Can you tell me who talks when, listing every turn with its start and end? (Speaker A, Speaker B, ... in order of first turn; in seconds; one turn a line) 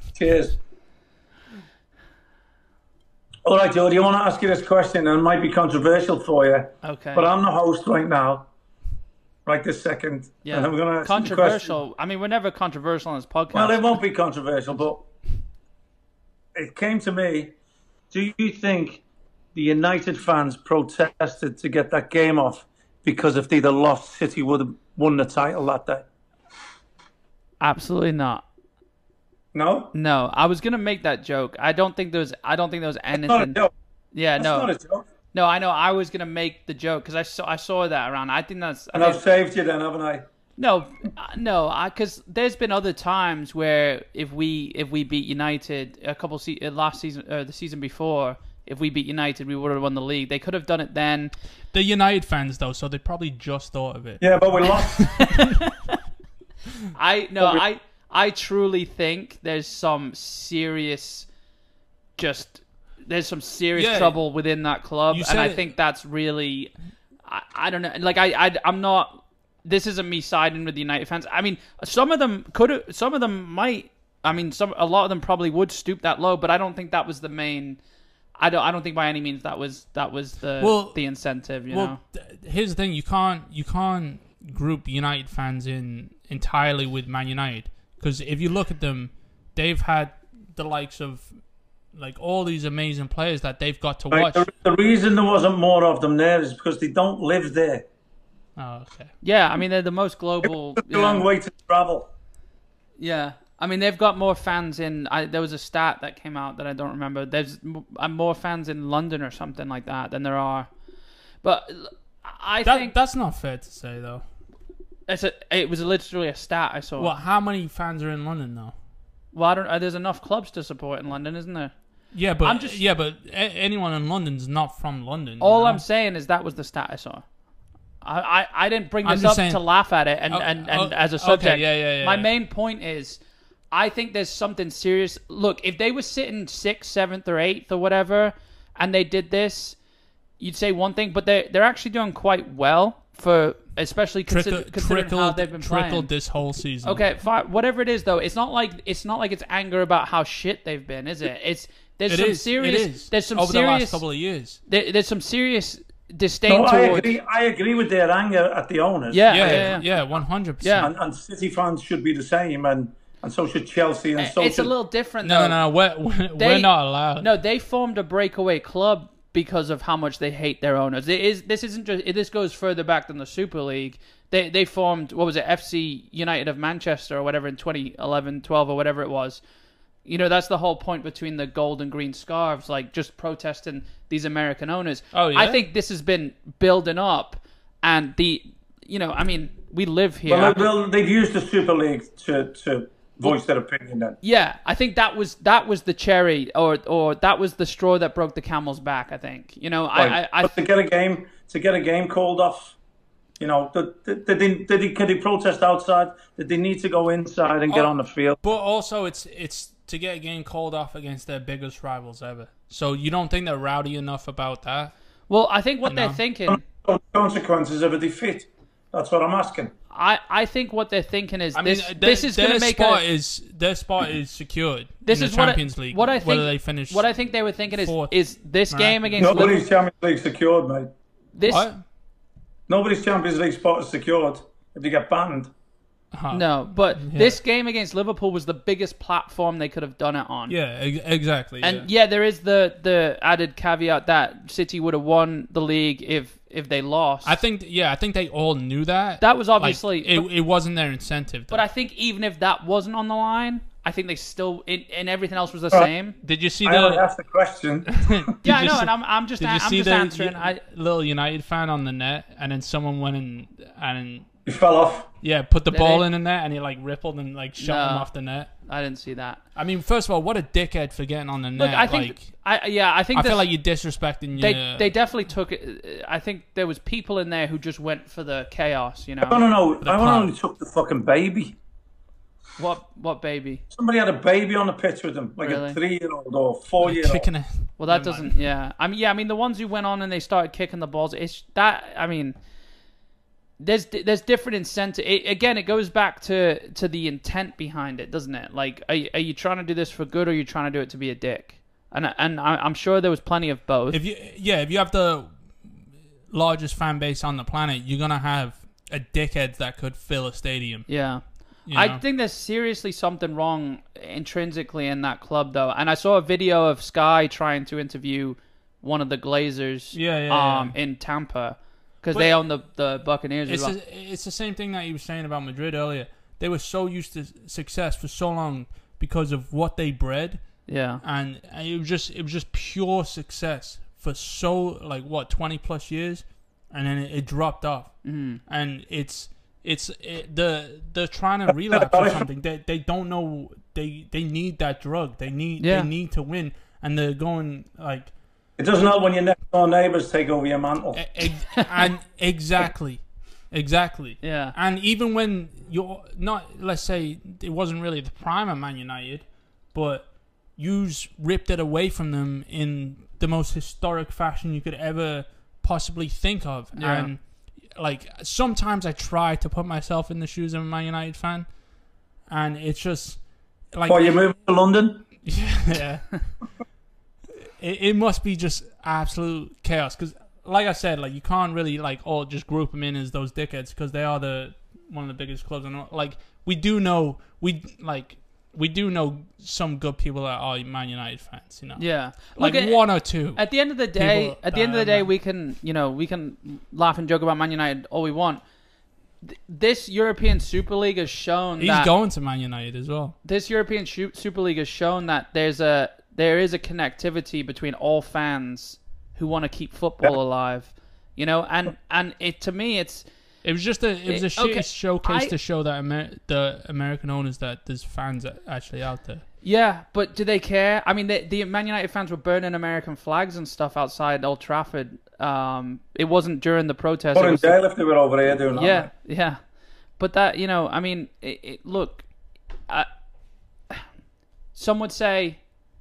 Speaker A: 0.1-0.6
Speaker A: 3.5-8.5
Speaker B: 6.8-7.3
Speaker A: 9.5-11.8
Speaker B: 10.4-13.9
Speaker A: 13.5-15.1
Speaker A: 16.6-17.6
Speaker A: 18.1-19.0
Speaker A: 19.6-26.1
Speaker B: 27.6-28.4
Speaker A: 29.5-29.9
Speaker B: 29.9-33.6
Speaker A: 33.1-33.7
Speaker B: 34.1-34.7
Speaker A: 34.4-35.1
Speaker B: 35.3-39.2
Speaker A: 38.9-40.3
Speaker B: 40.6-51.3
Speaker C: 51.7-55.6
Speaker A: 54.2-55.2
Speaker B: 55.2-55.7
Speaker B: 57.0-61.3
Speaker B: 62.2-66.7
Speaker C: 63.8-64.2
Speaker C: 65.1-65.7
Speaker B: 67.3-77.8
Speaker B: 78.4-82.0
Speaker C: 80.6-81.0
Speaker C: 81.7-91.3
Speaker C: 91.9-94.5
Speaker A: 94.1-97.9
Speaker C: 98.6-99.1
Speaker B: 99.2-101.3
Speaker A: 100.8-102.1
Speaker B: 103.0-110.7
Speaker B: 111.4-113.0
Speaker C: 112.6-114.2
Speaker B: 115.1-117.1
Speaker C: 117.0-118.7
Speaker B: 119.3-121.7
Speaker C: 122.1-125.8
Speaker B: 122.4-122.8
Speaker B: 125.4-127.2
Speaker B: 128.0-133.2
Speaker C: 129.0-129.7
Speaker C: 130.3-132.3
Speaker B: 133.7-139.8
Speaker B: 140.4-146.1
Speaker C: 144.3-147.0
Speaker B: 146.8-154.0
Speaker C: 152.1-154.6
Speaker B: 154.7-157.2
Speaker A: 156.5-159.8
Speaker B: 159.1-159.9
Speaker C: 159.3-160.9
Speaker B: 160.6-160.9
Speaker A: 160.8-164.7
Speaker B: 164.2-165.7
Speaker C: 165.2-167.3
Speaker B: 166.4-179.4
Speaker B: 180.1-190.7
Speaker C: 185.1-185.6
Speaker A: 190.3-194.2
Speaker B: 194.2-200.6
Speaker A: 199.9-202.8
Speaker A: 203.4-208.4
Speaker C: 207.7-214.9
Speaker B: 215.3-216.6
Speaker C: 215.9-216.2
Speaker A: 216.5-219.7
Speaker B: 219.9-223.0
Speaker C: 221.6-228.2
Speaker B: 225.1-229.7
Speaker C: 228.7-229.5
Speaker A: 229.2-230.9
Speaker B: 231.3-231.7
Speaker C: 231.5-231.8
Speaker A: 232.7-235.5
Speaker C: 236.1-237.4
Speaker B: 236.3-240.6
Speaker C: 240.5-241.9
Speaker B: 241.6-247.4
Speaker C: 247.2-251.6
Speaker B: 249.2-250.3
Speaker B: 251.5-256.2
Speaker C: 256.2-257.0
Speaker A: 256.6-258.3
Speaker C: 257.9-264.3
Speaker B: 258.4-260.6
Speaker A: 264.5-265.1
Speaker C: 265.2-268.5
Speaker B: 265.7-266.1
Speaker B: 267.6-268.1
Speaker B: 268.7-269.4
Speaker C: 269.6-272.3
Speaker B: 271.6-273.4
Speaker C: 273.1-274.9
Speaker B: 274.4-279.4
Speaker A: 279.2-281.6
Speaker C: 279.8-280.3
Speaker B: 282.6-283.6
Speaker A: 283.7-287.3
Speaker B: 285.4-285.8
Speaker C: 286.8-288.4
Speaker B: 287.8-292.4
Speaker B: 293.6-304.0
Speaker C: 303.9-305.3
Speaker C: 306.3-310.9
Speaker B: 310.9-323.8
Speaker C: 311.7-312.0
Speaker C: 319.9-320.8
Speaker C: 323.5-330.4
Speaker B: 330.7-331.0
Speaker C: 331.0-348.1
Speaker B: 338.0-338.4
Speaker A: 341.7-342.3
Speaker B: 345.6-345.9
Speaker A: 348.6-351.1
Speaker C: 350.9-367.2
Speaker B: 354.2-354.5
Speaker B: 366.8-367.1
Speaker C: 367.8-371.5
Speaker C: 372.3-373.2
Speaker C: 373.7-374.2
Speaker A: 373.9-375.1
Speaker C: 375.2-376.2
Speaker C: 377.6-395.1
Speaker B: 391.8-392.8
Speaker B: 393.3-398.4
Speaker B: 399.2-401.9
Speaker C: 401.6-403.1
Speaker B: 403.2-413.1
Speaker C: 413.4-419.2
Speaker B: 414.1-415.3
Speaker B: 419.4-427.6
Speaker A: 427.1-428.9
Speaker B: 428.5-429.4
Speaker B: 430.0-432.1
Speaker B: 434.6-435.4